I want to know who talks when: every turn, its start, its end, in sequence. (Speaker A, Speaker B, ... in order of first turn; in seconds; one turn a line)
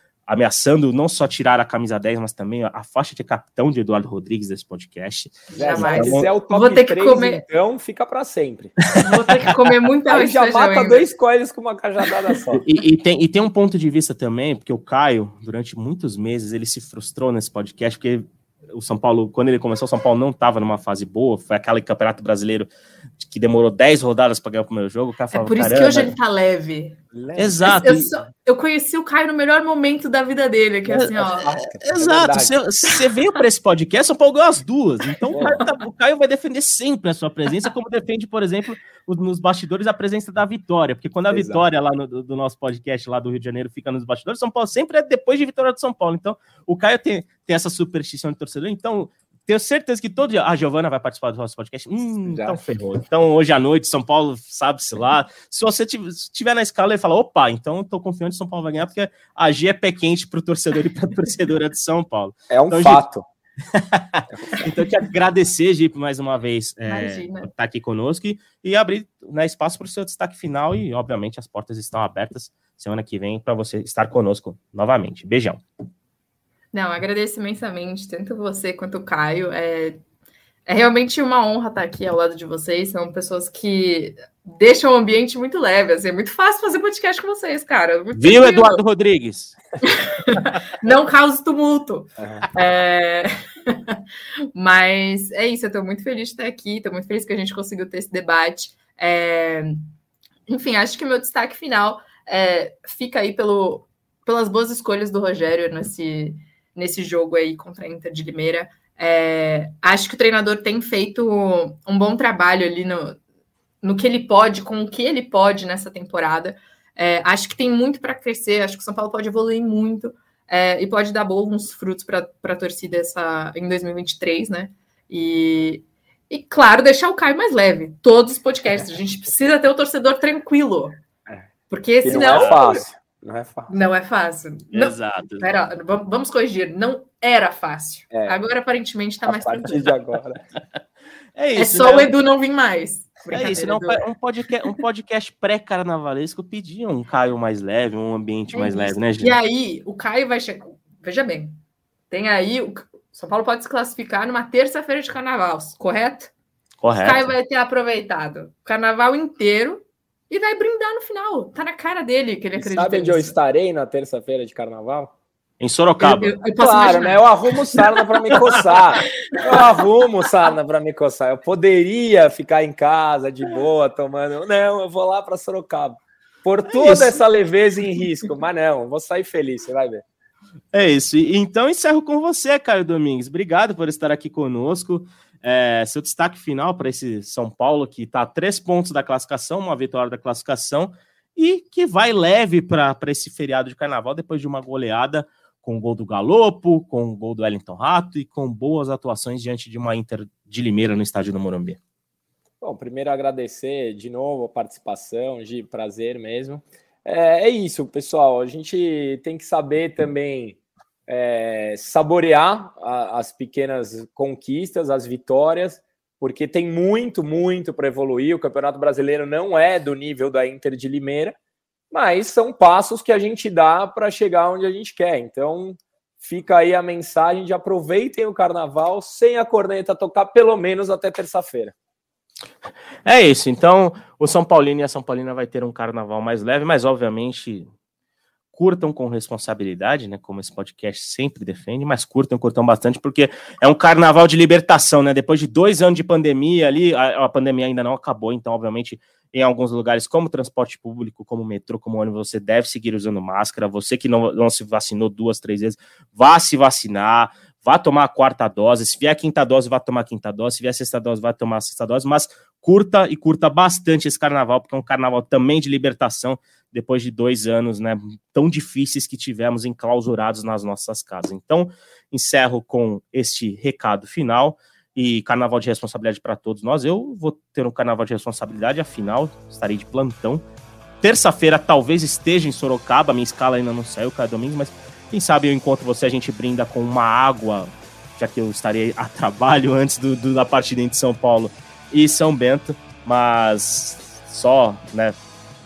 Speaker A: 0.3-6.3
Speaker B: 5.5-7.4
Speaker C: 5.5-8.9
Speaker B: 9.0-11.1
Speaker C: 10.1-12.6
Speaker A: 12.5-26.1
Speaker B: 25.3-27.0
Speaker C: 27.1-27.8
Speaker A: 27.4-28.1
Speaker B: 27.6-31.6
Speaker C: 30.9-32.5
Speaker A: 31.8-63.0
Speaker C: 35.3-35.6
Speaker C: 41.3-41.6
Speaker C: 52.3-52.6
Speaker C: 62.5-63.2
Speaker A: 63.7-75.6
Speaker C: 64.3-64.6
Speaker B: 66.9-67.5
Speaker B: 76.7-80.0
Speaker B: 80.7-88.8
Speaker A: 88.1-89.6
Speaker B: 89.8-94.0
Speaker C: 92.2-92.4
Speaker B: 94.5-99.9
Speaker B: 100.5-113.2
Speaker B: 113.8-131.0
Speaker B: 131.7-132.8
Speaker C: 132.0-133.7
Speaker A: 132.3-132.6
Speaker B: 133.7-139.9
Speaker A: 134.7-135.5
Speaker C: 138.1-138.4
Speaker C: 139.3-140.4
Speaker A: 141.4-142.1
Speaker B: 141.6-144.1
Speaker A: 143.3-149.4
Speaker B: 148.5-151.6
Speaker B: 152.1-156.3
Speaker A: 156.8-157.3
Speaker B: 156.9-163.4
Speaker C: 162.6-165.1
Speaker A: 165.6-166.4
Speaker B: 166.0-168.0
Speaker C: 166.6-180.0
Speaker A: 176.7-177.2
Speaker A: 180.7-201.8
Speaker C: 202.6-221.4
Speaker C: 221.9-231.8
Speaker A: 233.1-237.7
Speaker A: 238.5-280.4
Speaker A: 281.0-295.2